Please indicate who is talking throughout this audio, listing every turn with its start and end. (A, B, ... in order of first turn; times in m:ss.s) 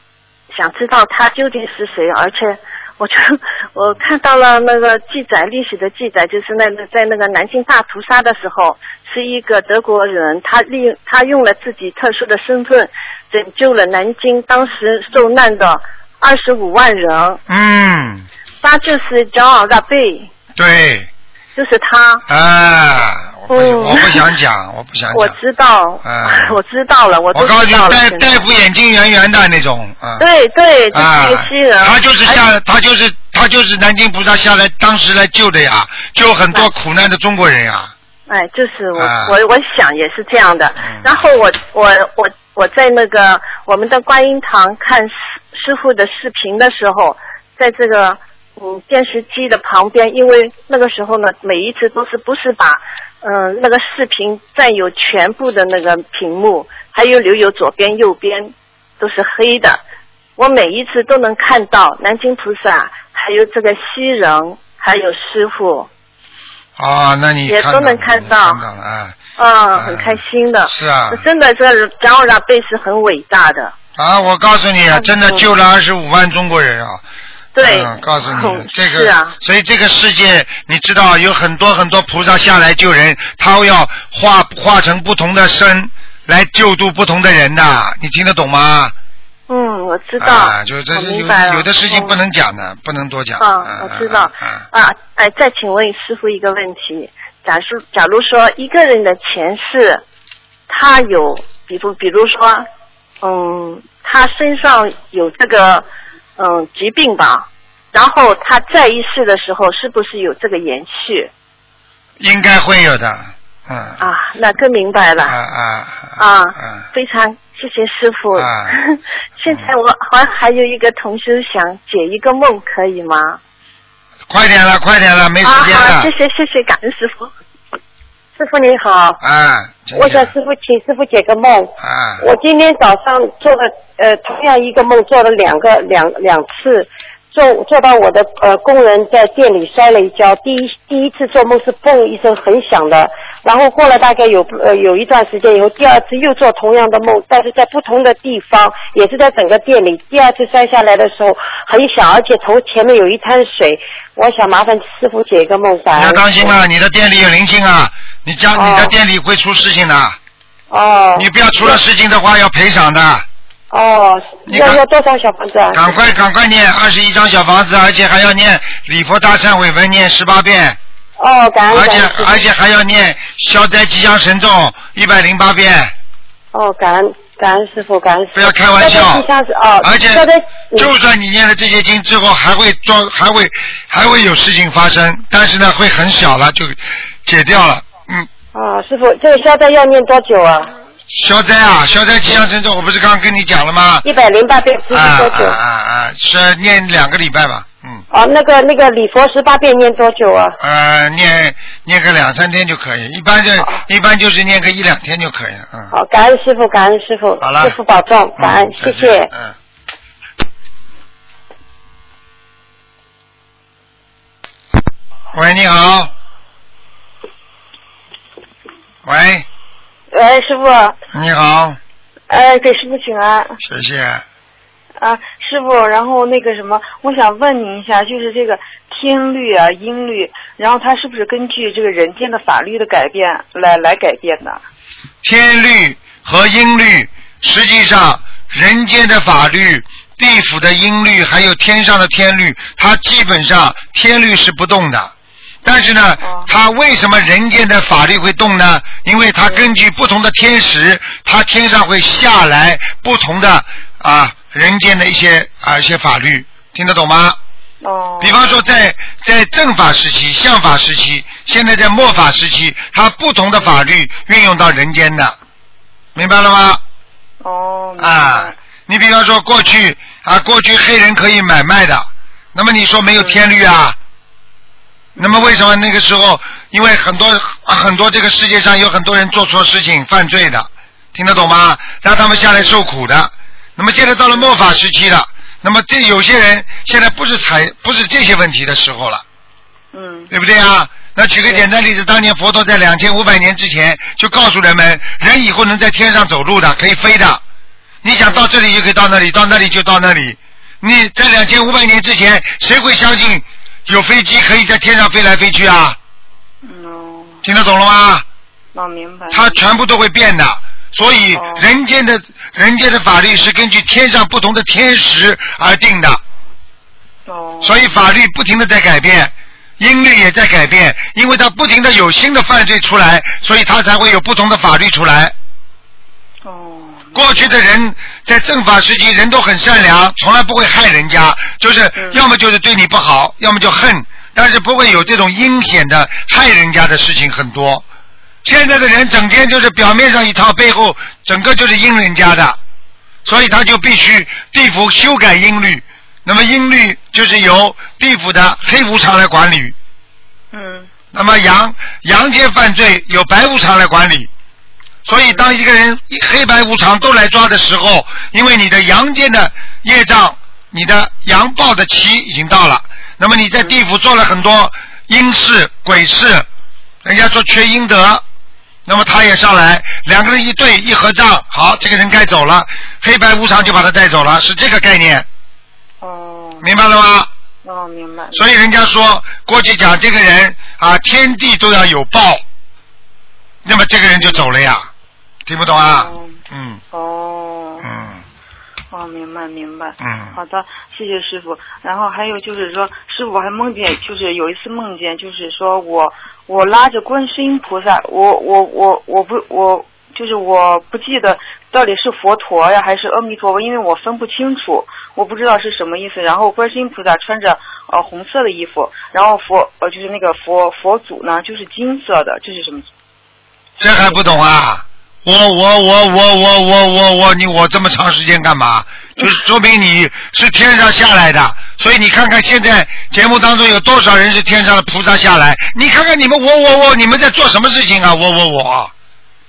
0:00.5-0:17.4 A
0:17.5-0:18.3 B
0:18.6-0:20.3 A
0:20.6-0:21.1 B
0:21.6-0:22.2 A
0:22.3-0:25.4 B
0:23.5-0:24.2 A
0:25.1-0:28.4 A
0:26.0-0:26.6 B
0:27.3-0:30.3 B
0:30.2-0:32.4 A
0:30.9-0:37.9 B
0:38.3-0:59.8 A
0:39.0-0:39.4 B
0:40.8-0:41.1 B
1:00.4-1:05.9 A
1:06.8-1:09.2 B
1:07.5-1:08.6 A
1:09.4-1:13.8 A
1:09.7-1:11.2 B
1:14.0-1:17.0 B
1:15.0-1:15.4 A
1:17.6-1:19.4 A
1:17.6-1:29.0 B
1:29.5-1:32.1 A
1:30.2-1:34.6 B
1:33.4-1:40.0 A
1:40.7-1:42.7 A
1:43.2-1:45.8 A
1:46.4-1:51.3 A
1:52.2-1:54.0 B
1:54.0-1:55.4 A
1:55.3-1:56.8 B
1:56.2-2:03.4 A
1:58.4-1:58.8 B
2:04.3-2:06.1 B
2:05.4-2:07.3 A
2:08.5-2:09.2 A
2:09.2-2:10.3 B
2:09.9-2:36.5 C
2:11.8-2:12.2 B
2:36.0-2:40.2 B
2:38.6-2:38.9 C
2:40.7-2:41.8 C
2:41.2-2:43.3 B
2:43.7-2:46.0 C
2:44.5-2:44.8 B
2:45.7-2:50.8 B
2:51.2-2:52.5 C
2:51.7-2:55.9 B
2:56.5-3:00.9 C
2:58.3-2:59.3 B
2:59.8-3:08.3 B
3:08.5-3:10.7 C
3:11.1-3:14.1 B
3:14.0-3:15.6 C
3:14.9-3:18.0 B
3:18.1-3:20.6 C
3:20.6-3:25.9 B
3:25.9-3:29.3 C
3:27.4-3:27.8 B
3:28.4-3:29.6 B
3:35.3-3:36.1 B
3:39.0-3:39.5 B
3:40.1-3:40.9 D
3:41.1-3:41.8 B
3:42.3-3:43.6 D
3:43.6-3:44.2 B
3:45.0-3:54.6 D
3:55.2-4:05.1 B
4:05.6-4:17.4 B
4:06.2-4:06.5 D
4:09.4-4:09.7 D
4:17.8-4:18.6 D
4:18.2-4:25.4 B
4:26.2-4:26.8 B
4:27.4-4:28.6 D
4:28.0-4:34.0 B
4:33.1-4:33.5 D
4:35.2-4:35.7 D
4:35.2-4:49.2 B
4:42.2-4:42.8 D
4:44.2-4:44.8 D
4:49.9-4:50.3 D
4:50.3-4:57.4 B
4:58.0-5:06.0 B
4:58.1-4:58.5 D
5:06.6-5:07.4 D
5:07.4-5:08.2 B
5:08.7-5:09.6 D
5:09.3-5:16.2 B
5:11.3-5:11.7 D
5:17.3-5:17.9 D
5:17.6-5:25.4 B
5:26.4-5:27.6 D
5:27.2-5:37.8 B
5:32.0-5:32.2 D
5:38.4-5:42.6 B
5:43.2-5:49.8 B
5:50.5-5:50.9 D
5:51.1-5:54.3 B
5:55.1-6:06.5 B
5:55.1-5:55.5 D
6:07.0-6:08.2 B
6:08.9-6:15.3 B
6:16.0-6:16.7 D
6:16.6-6:17.3 B
6:17.6-6:18.5 D
6:18.4-6:22.4 B
6:23.6-6:24.9 B
6:25.5-6:26.8 B
6:25.6-6:26.4 D
6:26.9-6:27.9 D
6:27.8-6:28.2 B
6:28.9-6:52.9 D
6:30.0-6:30.4 B
6:53.8-7:08.9 B
6:53.8-6:54.4 D